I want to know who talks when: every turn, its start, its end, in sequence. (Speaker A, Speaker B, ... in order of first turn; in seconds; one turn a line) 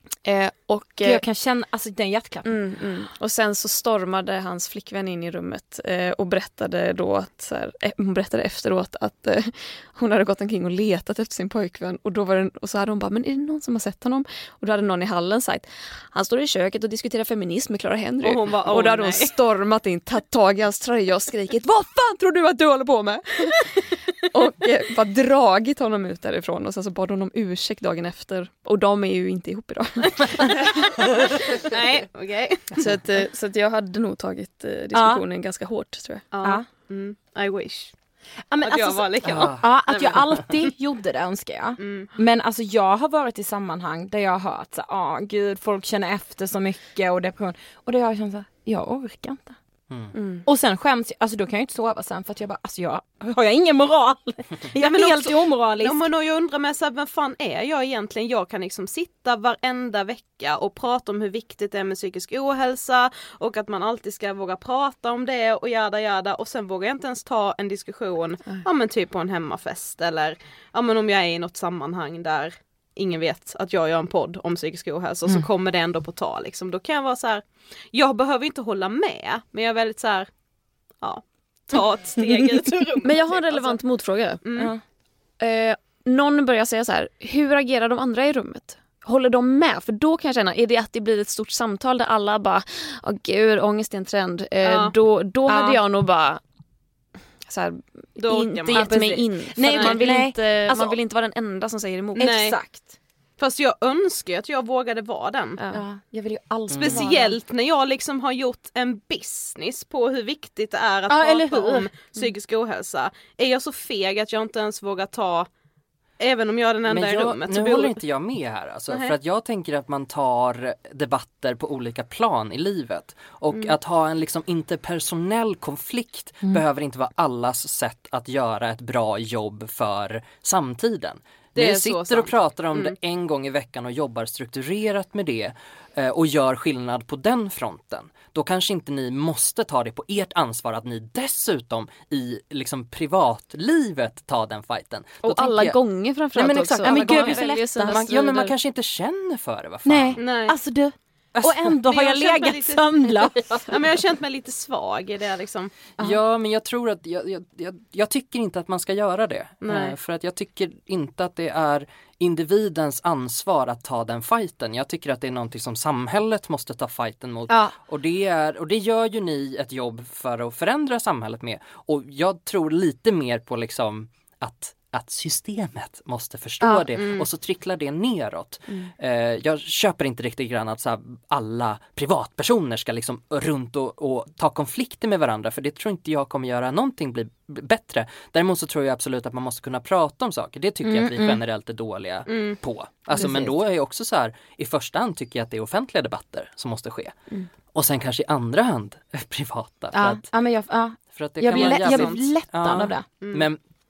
Speaker A: 0.2-1.2
Speaker B: 1.0-2.5
Speaker A: 2.4-30.7
Speaker C: 18.2-19.3
Speaker C: 31.6-32.7
Speaker A: 32.7-36.2
Speaker B: 34.9-35.2
Speaker C: 36.3-37.9
Speaker B: 36.4-36.7
Speaker B: 38.5-49.6
Speaker C: 38.6-40.5
Speaker D: 39.2-39.7
Speaker C: 41.8-42.1
Speaker D: 49.9-50.1
Speaker A: 50.1-50.5
Speaker B: 50.5-56.0
Speaker C: 54.8-80.3
Speaker C: 81.0-83.8
Speaker B: 82.2-82.7
Speaker A: 83.0-84.4
Speaker C: 84.4-84.7
Speaker A: 85.4-96.4
Speaker C: 94.6-94.9
Speaker B: 95.5-95.8
Speaker A: 97.5-102.4
Speaker C: 98.2-99.0
Speaker B: 98.7-101.0
Speaker C: 99.7-100.0
Speaker B: 102.2-102.9
Speaker C: 102.2-102.6
Speaker C: 103.4-105.6
Speaker A: 105.6-105.8
Speaker B: 105.7-107.4
Speaker D: 106.7-107.0
Speaker C: 106.7-115.5
Speaker B: 111.1-112.2
Speaker C: 116.2-118.0
Speaker D: 116.8-145.8
Speaker C: 131.6-132.9
Speaker A: 145.2-148.5
Speaker D: 146.3-150.2
Speaker B: 146.8-148.1
Speaker B: 149.8-153.6
Speaker C: 150.2-150.5
Speaker D: 151.4-151.8
Speaker C: 151.8-152.8
Speaker C: 153.7-155.7
Speaker D: 156.0-197.2
Speaker C: 159.6-159.9
Speaker C: 176.9-177.2
Speaker B: 190.8-191.4
Speaker C: 192.3-192.6
Speaker B: 193.1-193.6
Speaker D: 197.7-200.2
Speaker B: 199.9-203.0
Speaker D: 201.1-203.6
Speaker C: 201.5-202.2